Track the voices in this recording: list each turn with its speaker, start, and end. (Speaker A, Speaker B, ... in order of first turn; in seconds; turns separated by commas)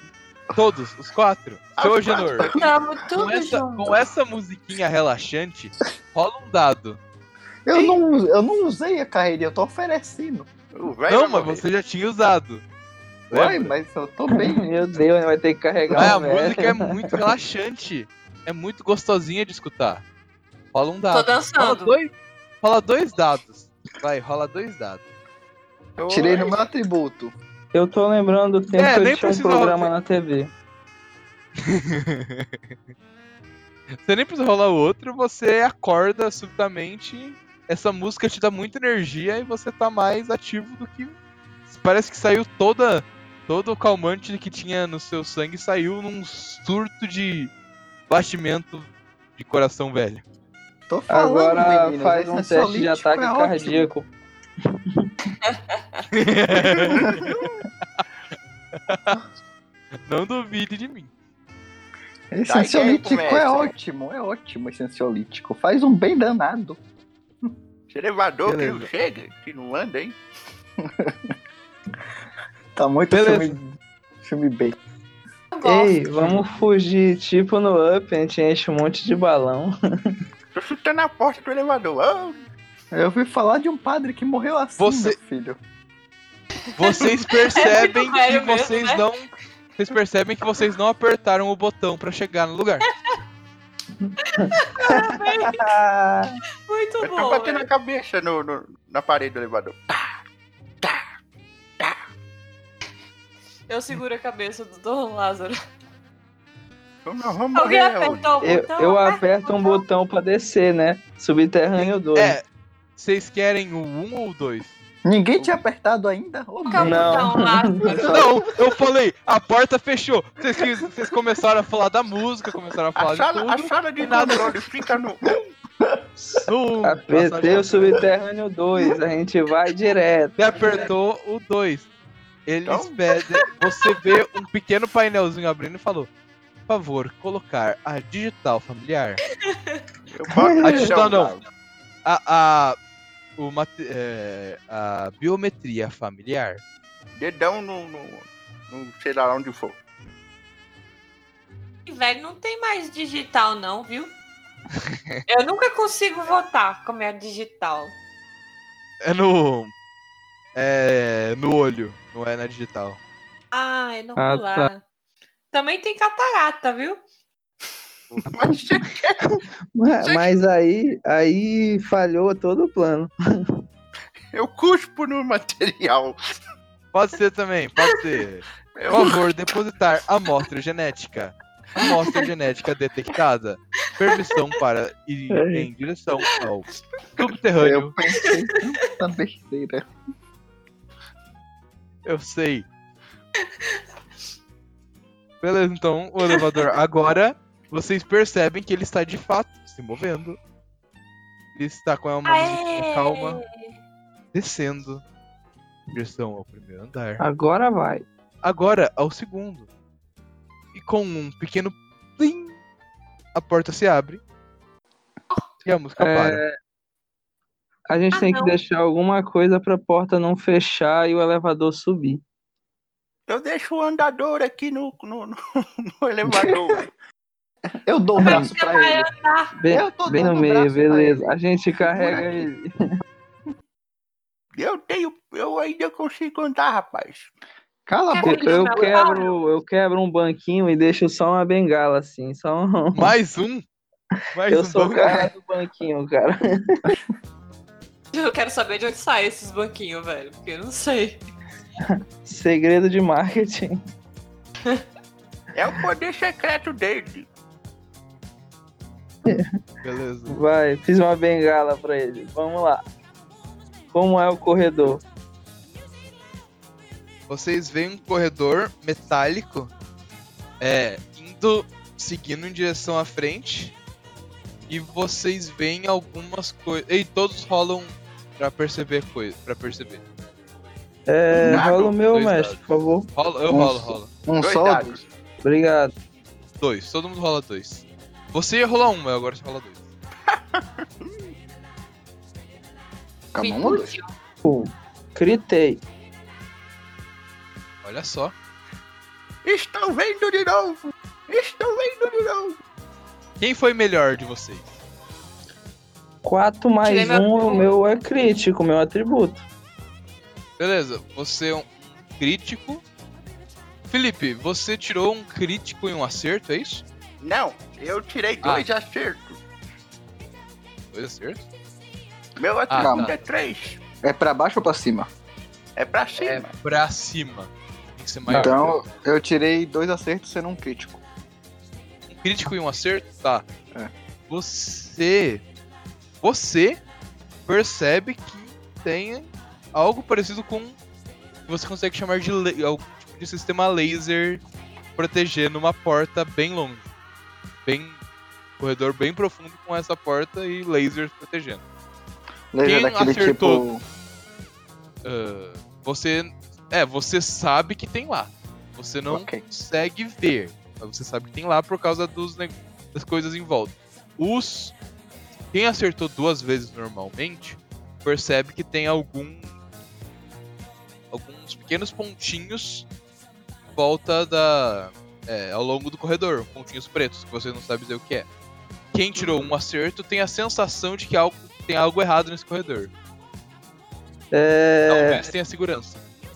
Speaker A: 0.5-2.5, Speaker B: 1.8-2.8, Speaker C: 2.5-4.0, Speaker A: 3.1-7.0, Speaker D: 7.7-10.5, Speaker B: 7.7-8.0, Speaker B: 10.7-11.6, Speaker A: 11.1-12.6, Speaker A: 13.3-13.8, Speaker D: 13.3-15.0, Speaker E: 14.3-16.8, Speaker A: 15.9-20.0, Speaker A: 20.7-22.1, Speaker C: 21.1-21.9, Speaker A: 22.6-25.0, Speaker B: 26.0-26.6, Speaker D: 26.1-27.3, Speaker E: 27.7-30.5, Speaker A: 28.7-29.9, Speaker A: 31.6-32.5, Speaker A: 34.0-41.1, Speaker A: 41.7-47.5, Speaker A: 48.1-50.2, Speaker D: 50.9-53.9, Speaker E: 51.1-54.1, Speaker A: 56.1-57.5, Speaker D: 56.9-57.2, Speaker A: 58.8-59.2, Speaker A: 60.1-61.1, Speaker D: 62.3-66.8, Speaker B: 62.5-63.7, Speaker B: 67.9-70.2, Speaker A: 68.5-68.9, Speaker D: 70.8-71.1, Speaker D: 72.8-73.6, Speaker A: 73.1-73.5, Speaker D: 74.2-74.8, Speaker C: 75.5-76.0, Speaker E: 75.6-79.7, Speaker B: 80.5-82.4, Speaker D: 82.9-85.6, Speaker A: 84.8-85.2, Speaker C: 86.8-89.1, Speaker A: 86.8-92.9, Speaker E: 94.0-96.3, Speaker C: 94.4-95.7, Speaker C: 96.7-97.7, Speaker B: 97.0-100.1, Speaker C: 103.7-105.5, Speaker B: 107.0-108.4, Speaker C: 107.5-109.8, Speaker E: 108.4-112.3, Speaker A: 111.8-112.4, Speaker A: 113.0-114.7, Speaker D: 115.0-117.3, Speaker C: 116.7-118.2, Speaker E: 116.8-117.9, Speaker A: 118.0-124.5, Speaker D: 118.0-118.3, Speaker B: 123.0-125.5, Speaker A: 126.4-128.0, Speaker E: 126.8-130.3, Speaker A: 130.4-131.9, Speaker A: 132.5-136.1, Speaker B: 132.7-132.9, Speaker A: 136.7-139.2, Speaker C: 139.5-139.8, Speaker B: 140.1-141.4, Speaker A: 140.6-141.3, Speaker A: 142.0-142.8, Speaker A: 143.4-146.6, Speaker B: 147.2-149.8, Speaker C: 151.8-154.1, Speaker A: 154.9-155.2, Speaker C: 155.3-157.9, Speaker A: 159.0-159.7, Speaker A: 160.5-163.0, Speaker C: 163.5-164.8, Speaker E: 164.2-164.7, Speaker C: 165.5-167.0, Speaker B: 168.3-169.2, Speaker E: 169.7-173.1, Speaker B: 174.3-176.2, Speaker A: 176.9-186.7, Speaker B: 178.7-179.2, Speaker C: 184.1-184.4, Speaker E: 185.3-185.7, Speaker A: 187.2-187.9, Speaker D: 187.6-189.8, Speaker C: 188.2-188.6, Speaker A: 192.0-192.7, Speaker A: 195.4-200.4, Speaker C: 196.3-196.6, Speaker A: 201.6-203.4, Speaker C: 202.2-203.5, Speaker A: 204.3-205.0, Speaker A: 205.9-207.2, Speaker E: 207.2-208.0, Speaker A: 208.4-209.7, Speaker A: 210.7-212.6, Speaker A: 213.3-214.2, Speaker A: 215.6-216.4, Speaker E: 216.0-216.5, Speaker E: 217.9-222.2, Speaker C: 218.1-218.5, Speaker B: 223.3-225.4, Speaker B: 225.9-226.9, Speaker D: 226.2-226.6, Speaker D: 227.7-229.1, Speaker C: 228.2-229.5, Speaker E: 229.6-232.6, Speaker D: 229.7-232.4, Speaker B: 234.6-237.3, Speaker D: 237.9-238.9, Speaker C: 238.1-239.3, Speaker E: 238.2-243.1, Speaker A: 242.9-243.6, Speaker A: 244.3-245.2, Speaker E: 244.5-246.8, Speaker C: 248.1-251.2, Speaker E: 252.2-253.8, Speaker B: 255.5-257.3, Speaker A: 259.8-260.4, Speaker E: 260.3-262.8, Speaker E: 263.9-265.0, Speaker A: 267.3-269.7, Speaker A: 270.6-273.7, Speaker A: 274.7-280.0, Speaker E: 281.1-283.1, Speaker B: 281.4-282.0, Speaker A: 282.1-282.6, Speaker A: 283.1-284.1, Speaker D: 283.5-285.0, Speaker B: 284.4-285.0, Speaker E: 285.4-285.9, Speaker A: 286.6-289.8, Speaker B: 290.3-291.1, Speaker D: 293.3-293.9, Speaker C: 293.4-294.1, Speaker E: 294.4-295.8, Speaker A: 297.8-298.3, Speaker B: 299.4-302.6, Speaker A: 303.4-304.7, Speaker E: 306.2-309.4, Speaker C: 306.8-307.8, Speaker A: 310.6-312.8, Speaker A: 313.9-316.8, Speaker B: 317.2-319.4, Speaker A: 320.9-321.4, Speaker B: 322.4-323.8, Speaker A: 322.7-323.2, Speaker D: 322.7-323.1, Speaker D: 324.0-325.1, Speaker B: 325.8-326.5, Speaker A: 326.2-328.8, Speaker D: 328.3-331.0, Speaker A: 332.1-333.4, Speaker A: 334.3-335.4, Speaker A: 336.2-336.8, Speaker A: 337.5-340.8, Speaker A: 341.5-344.4, Speaker A: 345.0-346.9, Speaker A: 347.6-348.0, Speaker A: 348.6-351.6, Speaker D: 352.5-353.8, Speaker A: 352.6-353.6, Speaker A: 355.0-364.7, Speaker D: 359.1-359.4, Speaker A: 365.5-369.5, Speaker A: 371.1-372.9, Speaker A: 373.8-378.3, Speaker A: 378.9-382.9, Speaker E: 384.3-385.3, Speaker A: 384.9-386.0